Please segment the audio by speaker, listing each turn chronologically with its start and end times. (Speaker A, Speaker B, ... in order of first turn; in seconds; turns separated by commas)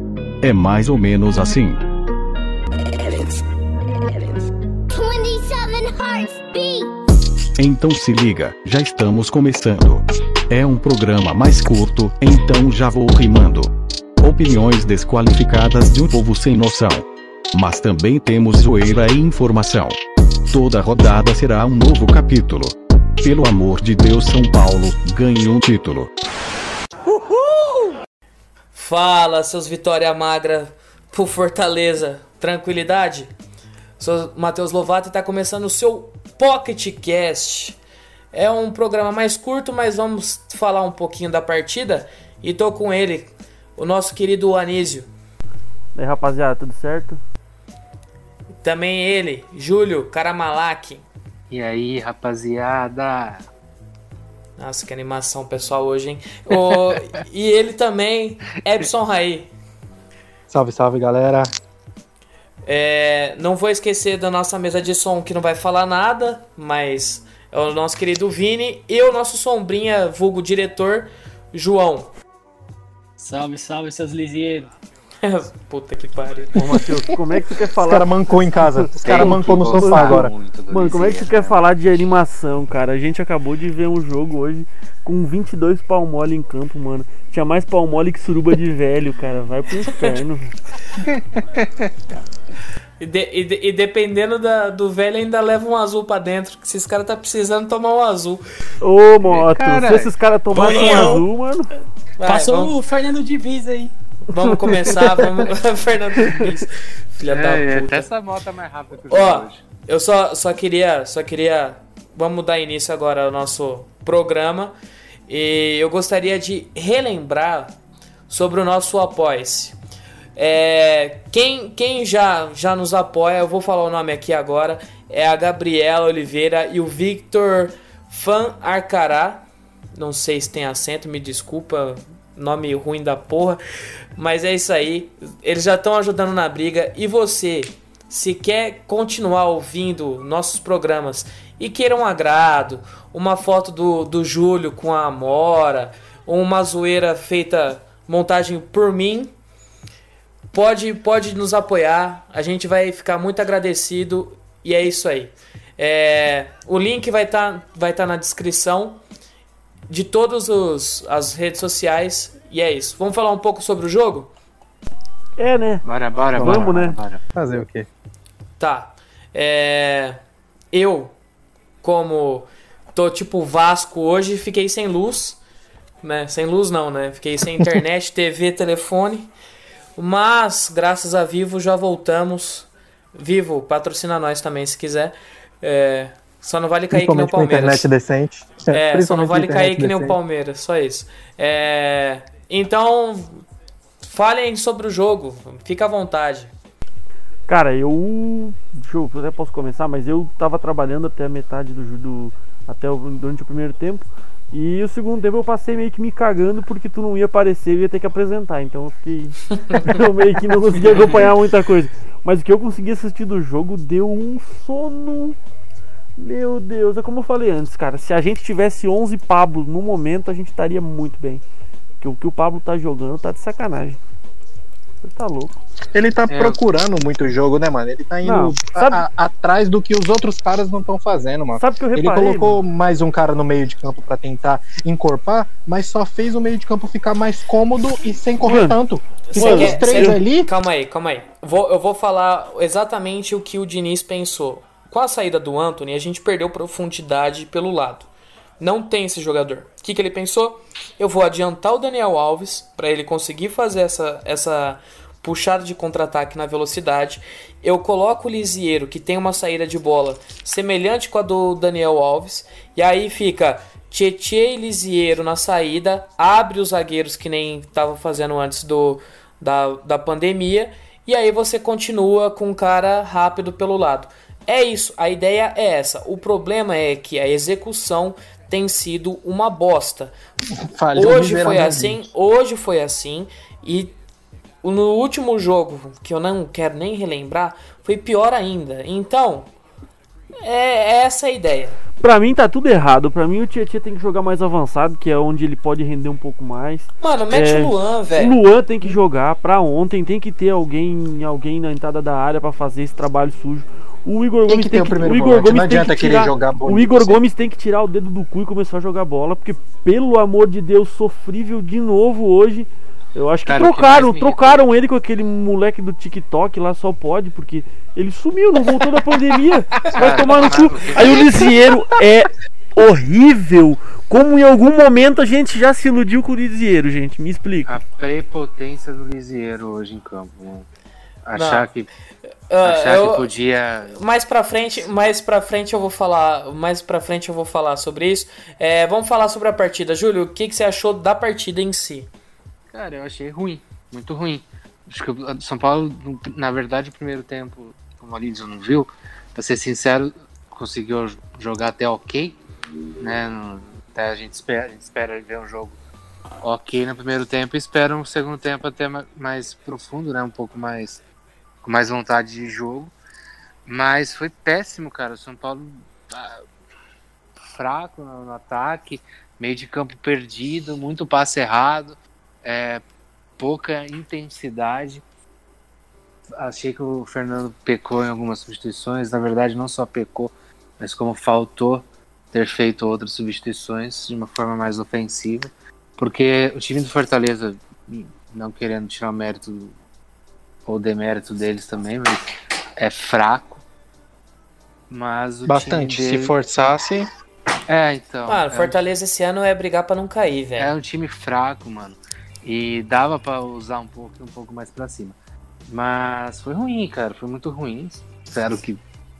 Speaker A: 0.4-1.8, Speaker B: 3.0-3.4, Speaker B: 4.1-4.4, Speaker B: 4.9-6.9, Speaker A: 7.6-20.0, Speaker A: 20.5-26.1, Speaker C: 28.7-33.3, Speaker C: 34.0-37.8, Speaker C: 38.3-45.1, Speaker D: 45.9-47.2, Speaker C: 48.6-51.0, Speaker E: 51.5-53.4, Speaker C: 54.6-59.5, Speaker F: 60.5-61.5, Speaker C: 62.6-72.1, Speaker G: 73.2-74.7, Speaker C: 75.2-76.5, Speaker D: 76.5-90.5, Speaker F: 77.8-80.3, Speaker E: 79.0-81.6, Speaker E: 91.0-91.9, Speaker C: 93.0-98.5, Speaker D: 98.8-101.7, Speaker E: 99.2-100.1, Speaker G: 100.5-101.3, Speaker C: 102.2-102.7, Speaker G: 102.2-103.9, Speaker C: 104.3-108.1, Speaker D: 104.6-105.0, Speaker E: 107.3-109.6, Speaker C: 109.1-114.7, Speaker C: 115.3-117.7, Speaker C: 118.3-119.8, Speaker C: 120.3-129.4, Speaker C: 129.9-133.6, Speaker C: 134.2-149.3, Speaker C: 150.5-159.0, Speaker C: 159.9-164.3, Speaker D: 165.4-165.8, Speaker E: 165.8-167.2, Speaker F: 166.3-166.7, Speaker D: 166.4-167.0, Speaker F: 167.3-167.9, Speaker C: 168.6-170.2, Speaker C: 170.7-171.1, Speaker C: 171.8-175.4, Speaker C: 176.0-179.3, Speaker C: 180.0-187.9, Speaker F: 186.9-190.2, Speaker C: 188.7-193.4, Speaker C: 194.0-196.5, Speaker D: 197.5-215.4, Speaker D: 216.2-221.4, Speaker D: 222.0-224.0, Speaker D: 225.0-225.5, Speaker F: 225.9-240.5, Speaker E: 226.3-226.6, Speaker D: 228.2-229.0, Speaker D: 231.6-232.6, Speaker D: 238.4-238.8, Speaker C: 239.3-248.1, Speaker D: 239.3-240.2, Speaker C: 248.6-280.1, Speaker F: 280.6-282.1, Speaker C: 280.9-283.9, Speaker C: 284.6-289.5, Speaker C: 290.4-291.8, Speaker D: 292.0-327.7, Speaker C: 297.0-298.4, Speaker F: 304.5-307.2, Speaker E: 313.5-314.7, Speaker E: 319.9-321.5, Speaker E: 327.7-330.7, Speaker E: 331.2-331.9, Speaker C: 331.3-331.7, Speaker C: 332.5-333.3, Speaker E: 332.6-334.0, Speaker C: 333.9-342.1, Speaker E: 342.7-352.4, Speaker E: 353.0-355.8, Speaker E: 356.4-361.0, Speaker E: 361.6-362.9, Speaker E: 363.6-366.4, Speaker E: 367.4-372.8, Speaker E: 373.4-375.0, Speaker E: 376.4-389.7, Speaker E: 390.7-393.6, Speaker E: 394.9-396.7, Speaker F: 395.5-397.1, Speaker E: 397.7-398.8, Speaker C: 398.2-400.7, Speaker E: 400.6-405.1, Speaker E: 405.7-408.8